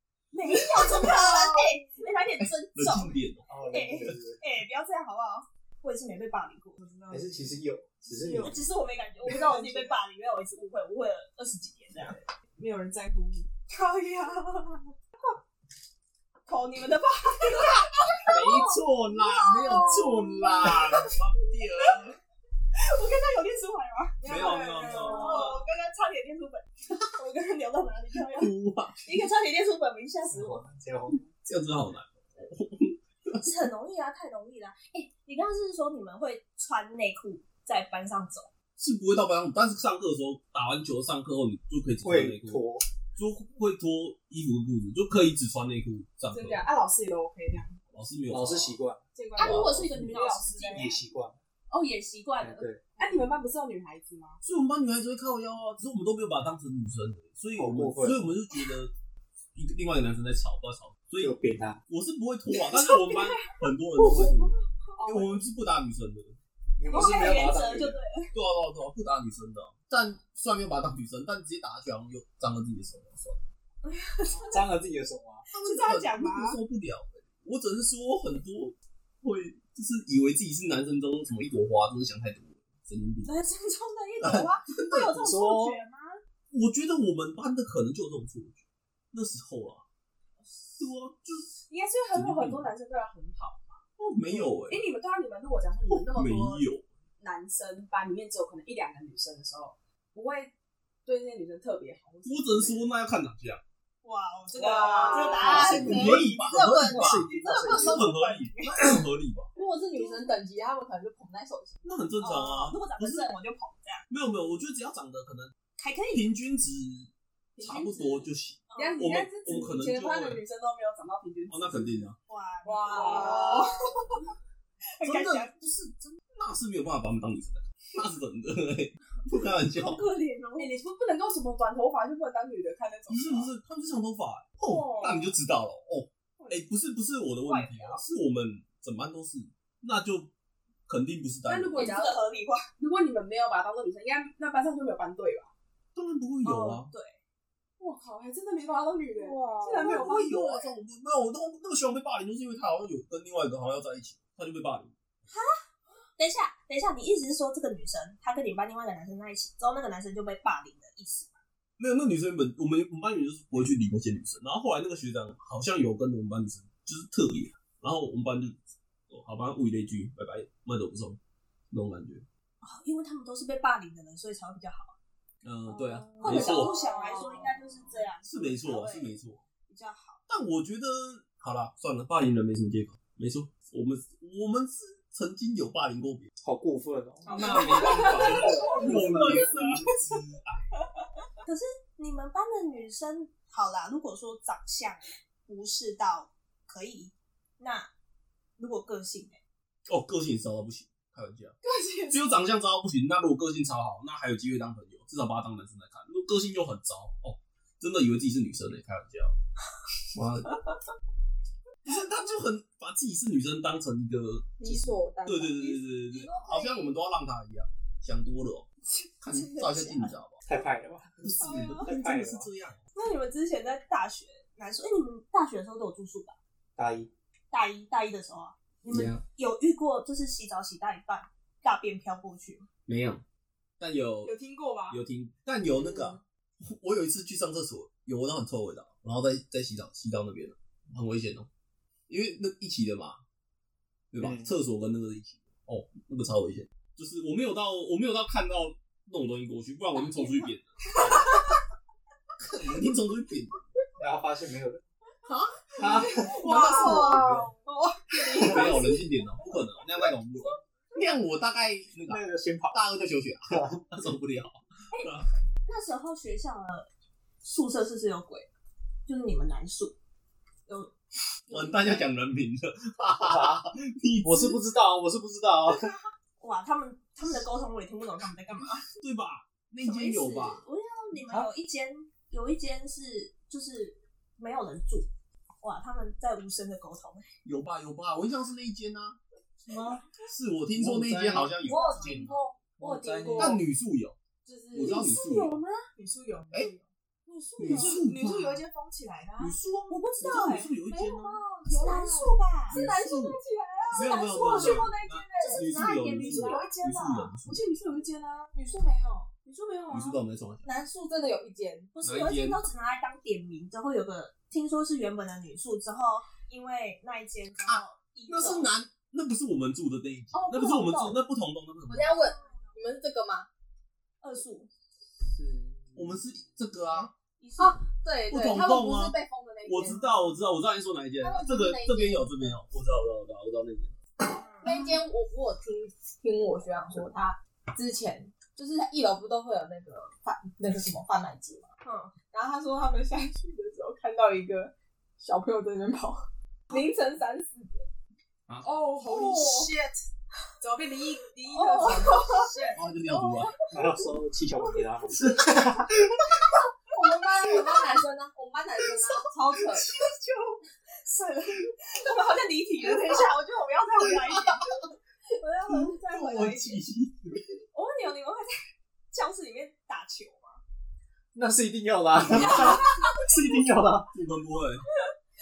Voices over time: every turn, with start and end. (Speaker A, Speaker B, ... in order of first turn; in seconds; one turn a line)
Speaker A: 0.3-6.8
Speaker B: 0.5-1.7
Speaker C: 2.7-3.5
Speaker D: 3.5-4.4
Speaker B: 6.8-7.5
Speaker D: 7.1-8.6
Speaker A: 8.3-12.2
Speaker B: 9.2-10.0
Speaker B: 11.9-13.5
Speaker A: 13.7-14.9
Speaker A: 16.4-18.7
Speaker C: 17.6-22.2
Speaker B: 19.6-20.2
Speaker A: 19.7-20.9
Speaker A: 22.7-24.2
Speaker B: 24.2-25.6
Speaker C: 24.2-25.5
Speaker A: 24.8-30.6
Speaker C: 28.1-29.2
Speaker D: 30.2-31.3
Speaker C: 31.4-33.5
Speaker A: 33.4-38.5
Speaker C: 38.8-42.6
Speaker D: 42.0-42.8
Speaker C: 43.1-46.7
Speaker B: 46.3-47.8
Speaker C: 47.9-48.8
Speaker D: 48.3-49.0
Speaker B: 49.1-51.0
Speaker A: 49.4-50.9
Speaker C: 49.4-50.2
Speaker D: 50.7-51.4
Speaker A: 51.7-52.5
Speaker D: 52.4-52.9
Speaker B: 53.0-54.4
Speaker C: 54.4-58.9
Speaker D: 57.5-58.3
Speaker C: 59.5-61.3
Speaker D: 61.2-61.8
Speaker C: 61.9-66.4
Speaker B: 62.7-63.3
Speaker B: 64.0-64.3
Speaker B: 64.9-65.4
Speaker D: 66.8-68.0
Speaker A: 66.9-68.3
Speaker C: 68.3-73.4
Speaker A: 73.8-74.7
Speaker D: 74.3-75.5
Speaker A: 75.5-76.6
Speaker C: 75.5-83.3
Speaker A: 83.2-86.2
Speaker C: 84.2-85.3
Speaker D: 85.1-85.8
Speaker C: 86.5-89.8
Speaker C: 90.8-91.6
Speaker B: 91.7-96.6
Speaker C: 92.1-92.7
Speaker C: 94.0-94.8
Speaker C: 95.9-96.8
Speaker B: 97.2-100.5
Speaker B: 101.0-102.9
Speaker C: 102.2-103.6
Speaker A: 104.0-109.0
Speaker B: 104.5-106.2
Speaker E: 104.9-106.2
Speaker C: 105.3-109.5
Speaker D: 105.4-108.1
Speaker E: 109.5-111.8
Speaker B: 109.6-110.4
Speaker A: 110.0-110.2
Speaker C: 111.8-113.3
Speaker A: 112.2-114.0
Speaker C: 114.1-115.5
Speaker A: 115.8-116.2
Speaker C: 116.1-120.4
Speaker B: 117.5-122.1
Speaker A: 118.7-119.1
Speaker C: 121.5-122.2
Speaker A: 122.3-124.3
Speaker B: 122.6-124.2
Speaker E: 123.2-123.6
Speaker A: 125.0-125.5
Speaker C: 125.0-130.0
Speaker A: 129.7-130.7
Speaker B: 130.6-133.5
Speaker C: 133.1-140.3
Speaker B: 134.6-135.4
Speaker B: 136.4-136.6
Speaker A: 137.5-138.0
Speaker C: 140.9-142.0
Speaker B: 141.4-142.2
Speaker A: 141.8-142.7
Speaker B: 142.8-145.5
Speaker C: 145.9-146.9
Speaker A: 146.4-147.2
Speaker B: 147.8-150.7
Speaker A: 149.2-150.1
Speaker E: 149.5-150.2
Speaker C: 149.8-154.9
Speaker A: 155.3-155.6
Speaker A: 156.2-161.4
Speaker C: 161.8-171.2
Speaker C: 171.7-172.2
Speaker A: 172.6-174.9
Speaker C: 175.4-176.7
Speaker B: 175.9-177.5
Speaker A: 176.2-180.2
Speaker C: 178.2-179.4
Speaker C: 180.3-186.3
Speaker D: 186.4-189.8
Speaker B: 187.3-189.4
Speaker A: 187.3-189.7
Speaker C: 187.3-190.7
Speaker A: 191.4-197.9
Speaker A: 198.6-199.4
Speaker C: 199.9-201.5
Speaker B: 201.6-202.3
Speaker C: 202.1-209.3
Speaker C: 210.1-210.5
Speaker C: 211.8-218.7
Speaker E: 214.6-215.7
Speaker A: 216.1-216.9
Speaker A: 218.8-220.1
Speaker C: 219.2-220.4
Speaker D: 220.4-222.5
Speaker C: 221.2-222.8
Speaker B: 221.5-221.8
Speaker A: 222.9-226.3
Speaker D: 226.8-227.1
Speaker A: 227.5-232.7
Speaker D: 228.9-229.2
Speaker C: 228.9-229.2
Speaker C: 232.8-233.2
Speaker C: 233.8-234.3
Speaker B: 234.2-235.0
Speaker C: 234.9-241.5
Speaker A: 235.8-236.2
Speaker C: 242.1-243.2
Speaker C: 244.1-251.3
Speaker D: 244.2-244.5
Speaker A: 250.1-250.5
Speaker A: 251.0-251.4
Speaker C: 252.4-253.6
Speaker D: 254.0-254.8
Speaker C: 255.2-257.5
Speaker D: 255.8-257.1
Speaker B: 256.1-258.9
Speaker E: 256.6-257.0
Speaker A: 256.8-257.2
Speaker C: 258.4-265.3
Speaker D: 262.0-262.8
Speaker A: 265.6-266.9
Speaker A: 267.4-268.5
Speaker A: 269.1-269.9
Speaker A: 270.7-272.1
Speaker C: 271.5-274.6
Speaker D: 273.2-273.6
Speaker D: 274.2-275.9
Speaker A: 276.4-278.8
Speaker C: 279.0-280.6
Speaker A: 279.8-285.1
Speaker D: 281.1-281.5
Speaker A: 285.6-287.2
Speaker C: 287.4-289.2
Speaker B: 289.7-290.0
Speaker C: 290.2-292.4
Speaker D: 290.8-291.7
Speaker B: 291.6-293.4
Speaker E: 291.7-293.5
Speaker D: 292.8-293.6
Speaker C: 293.3-294.1
Speaker E: 294.4-295.1
Speaker B: 294.6-296.9
Speaker C: 294.7-295.6
Speaker A: 297.3-298.0
Speaker C: 297.6-298.6
Speaker B: 297.6-299.6
Speaker C: 299.4-301.4
Speaker A: 299.9-300.7
Speaker E: 300.9-301.4
Speaker B: 301.5-310.2
Speaker A: 301.6-302.8
Speaker C: 302.7-303.4
Speaker E: 302.8-303.2
Speaker C: 303.9-307.6
Speaker A: 303.9-306.7
Speaker C: 309.9-310.7
Speaker E: 310.6-311.9
Speaker A: 311.9-318.7
Speaker C: 312.0-312.6
Speaker C: 317.6-322.2
Speaker E: 320.4-321.0
Speaker A: 321.9-322.8
Speaker E: 321.9-323.4
Speaker B: 321.9-322.9
Speaker A: 324.2-324.7
Speaker D: 325.2-326.2
Speaker C: 325.9-327.1
Speaker A: 327.4-327.9
Speaker E: 327.6-329.9
Speaker B: 327.6-329.9
Speaker C: 328.3-333.9
Speaker E: 331.2-332.5
Speaker B: 331.6-332.0
Speaker A: 334.2-334.7
Speaker B: 334.6-335.1
Speaker E: 334.6-341.6
Speaker B: 336.6-337.1
Speaker B: 338.3-339.3
Speaker A: 341.8-342.1
Speaker B: 342.3-346.2
Speaker E: 345.3-345.8
Speaker B: 346.7-347.9
Speaker B: 348.6-349.9
Speaker A: 349.1-349.7
Speaker B: 350.6-352.8
Speaker A: 351.5-353.5
Speaker C: 352.7-353.5
Speaker D: 353.7-356.0
Speaker B: 356.9-358.0
Speaker E: 356.9-359.9
Speaker B: 358.8-359.8
Speaker A: 361.0-364.7
Speaker B: 362.1-362.5
Speaker A: 365.3-366.8
Speaker C: 365.7-367.5
Speaker A: 367.7-368.5
Speaker A: 369.1-370.6
Speaker D: 371.3-374.1
Speaker C: 372.2-373.0
Speaker A: 372.4-373.1
Speaker C: 374.0-374.8